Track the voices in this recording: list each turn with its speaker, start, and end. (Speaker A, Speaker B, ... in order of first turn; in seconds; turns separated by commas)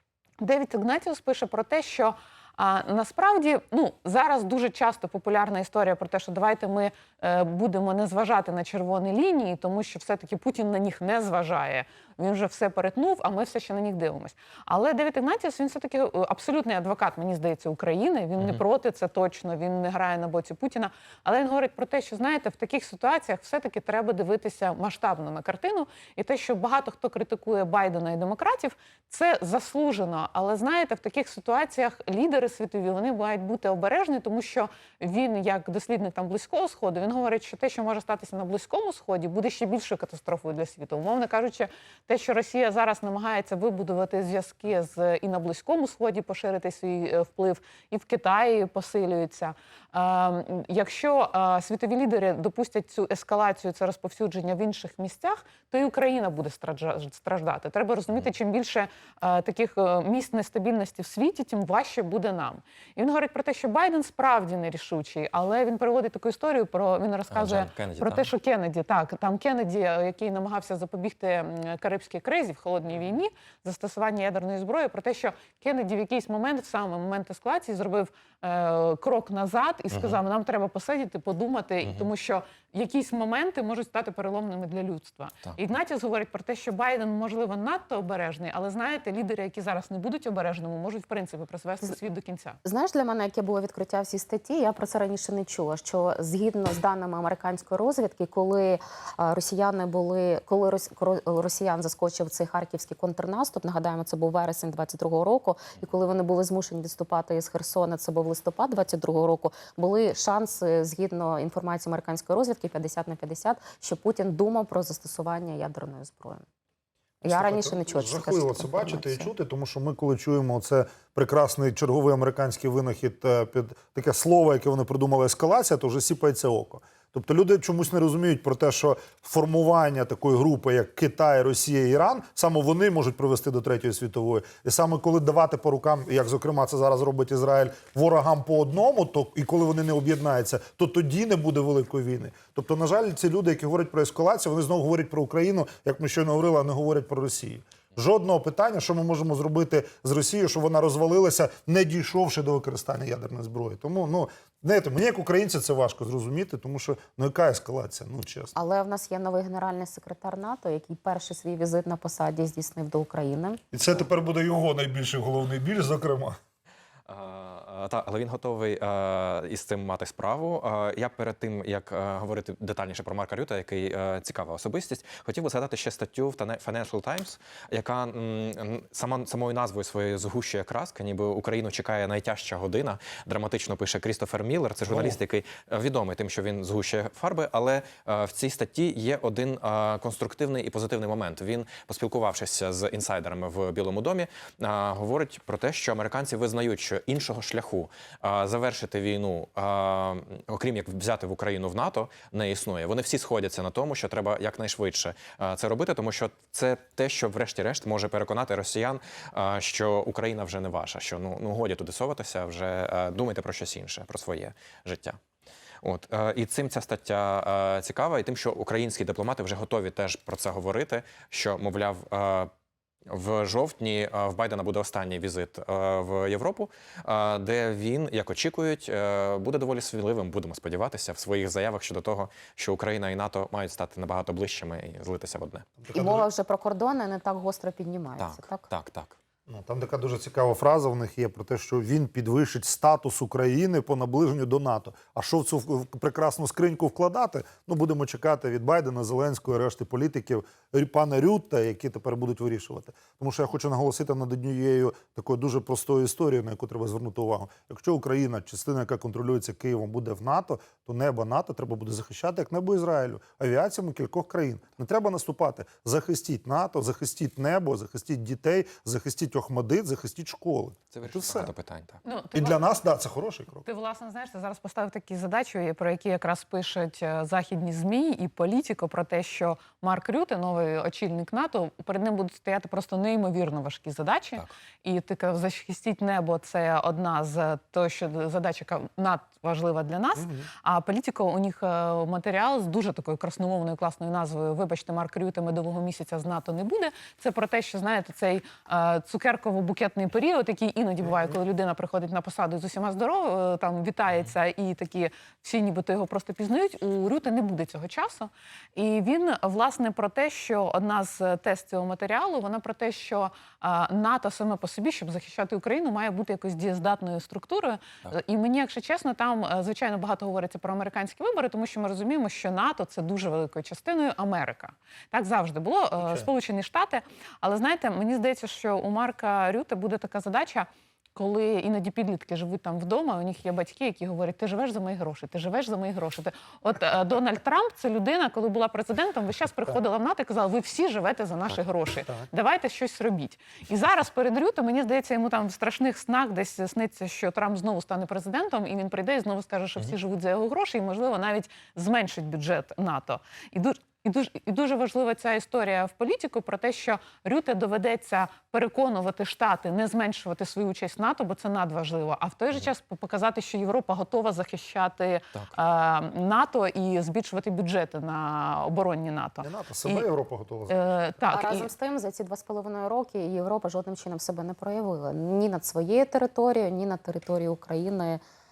Speaker A: 0.4-92.6, Speaker B: 67.3-68.3, Speaker B: 79.9-80.2, Speaker B: 81.8-82.1, Speaker C: 92.6-116.4, Speaker C: 117.2-119.3, Speaker D: 117.3-158.5, Speaker C: 158.5-163.6, Speaker D: 163.7-166.3, Speaker B: 167.1-215.2, Speaker D: 184.8-185.2, Speaker B: 215.8-222.5, Speaker B: 223.1-235.7, Speaker D: 235.8-236.2, Speaker C: 235.9-238.6, Speaker B: 238.2-239.2, Speaker D: 239.5-271.5, Speaker B: 270.9-272.0, Speaker A: 272.0-272.6, Speaker D: 272.3-273.6, Speaker A: 273.6-370.0, Speaker D: 290.2-290.5, Speaker D: 369.4-370.8, Speaker A: 370.7-371.7, Speaker C: 371.3-378.2